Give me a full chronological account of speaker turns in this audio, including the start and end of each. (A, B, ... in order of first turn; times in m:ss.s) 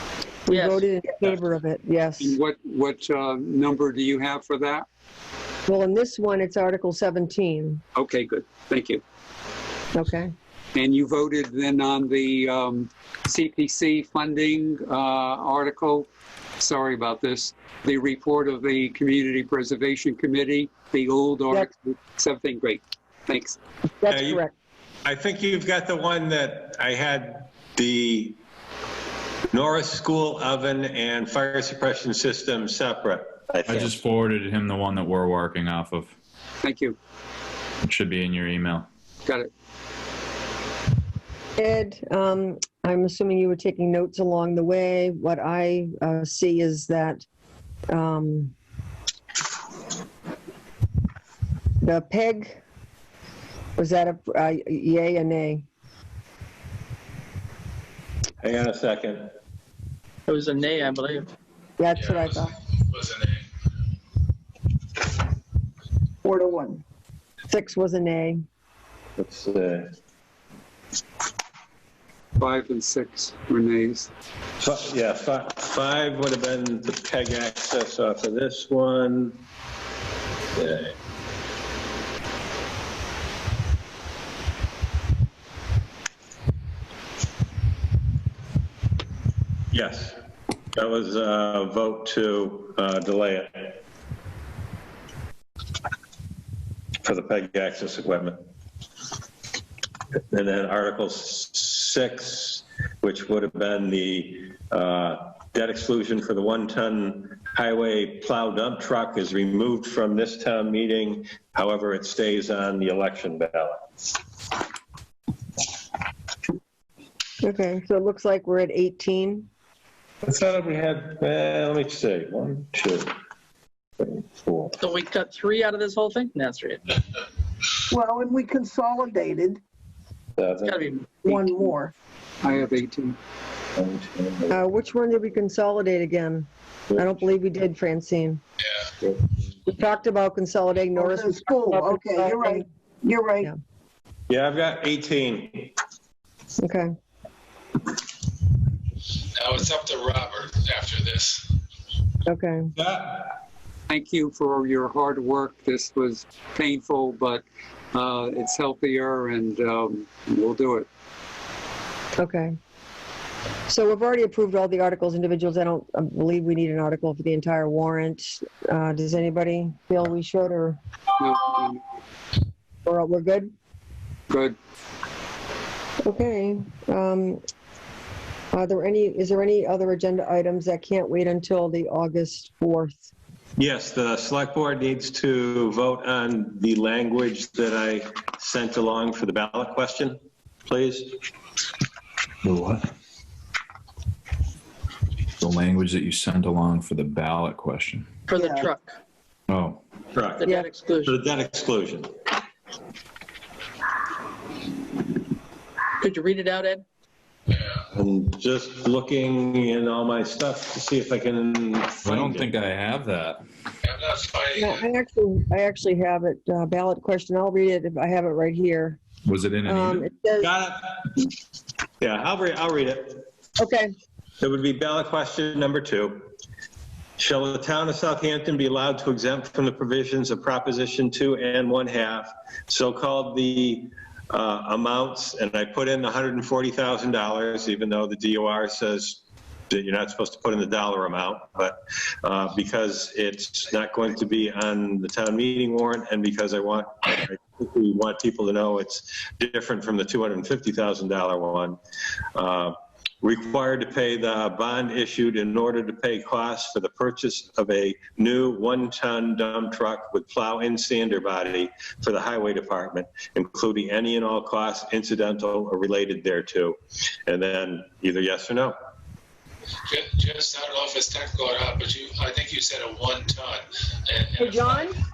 0:00.5-0:02.4 A
0:00.5-0:00.8 B
0:02.2-0:04.8 C
0:05.7-0:07.8 A
0:07.9-0:09.0 C
0:09.9-0:10.3 A
0:10.7-0:16.1 C
0:16.6-0:23.6 C
0:24.0-0:24.5 A
0:24.1-0:24.4 D
0:25.0-0:28.4 D
0:29.5-0:33.9 D
0:33.6-0:36.1 E
0:36.6-0:37.0 C
0:37.8-0:38.9 E
0:39.2-0:39.5 C
0:41.6-0:47.2 A
0:47.9-0:48.5 A
0:51.8-0:52.6 A
0:53.8-0:55.6 A
0:58.4-0:59.3 D
1:00.3-1:01.3 B
1:01.8-1:02.5 A
1:02.0-1:03.4 F
1:06.2-1:06.8 G
1:07.5-1:08.4 A
1:09.2-1:09.9 D
1:12.4-1:14.1 C
1:14.6-1:19.4 D
1:20.5-1:20.9 D
1:29.7-1:30.2 D
1:30.7-1:33.8 D
1:37.0-1:38.4 D
1:40.3-1:53.8 D
1:57.4-1:59.5 A
2:00.2-2:03.1 D
2:04.0-2:04.8 D
2:04.8-2:07.0 B
2:07.9-2:09.6 G
2:10.4-2:10.8 D
2:10.6-2:11.6 B
2:11.2-2:11.9 G
2:12.4-2:13.2 C
2:13.8-2:14.6 D
2:14.5-2:18.4 A
2:19.6-2:22.6 A
2:20.9-2:23.5 G
2:24.3-2:25.7 D
2:26.6-2:26.9 A
2:29.3-2:31.5 F
2:32.2-2:32.7 A
2:32.8-2:33.3 D
2:33.9-2:40.9 C
2:42.2-2:42.6 A
2:43.7-2:50.8 A
2:51.2-2:51.8 C
2:52.8-2:53.5 A
2:54.3-2:54.6 C
2:56.0-2:57.4 A
2:58.5-3:03.1 A
3:03.6-3:11.2 D
3:12.4-3:12.9 E
3:15.4-3:18.1 E
3:18.3-3:19.0 B
3:19.5-3:19.8 E
3:20.1-3:22.1 D
3:20.4-3:21.2 B
3:26.0-3:26.8 B
3:27.9-3:32.4 D
3:32.0-3:33.4 E
3:33.8-3:34.8 F
3:34.6-3:39.0 A
3:39.2-3:40.1 E
3:39.6-3:40.5 A
3:40.4-3:41.3 D
3:42.0-3:43.2 D
3:43.6-3:43.9 A
3:44.4-3:46.3 D
3:47.2-4:11.8 D
4:12.3-4:28.8 D
4:29.9-4:34.9 F
4:34.4-4:35.0 A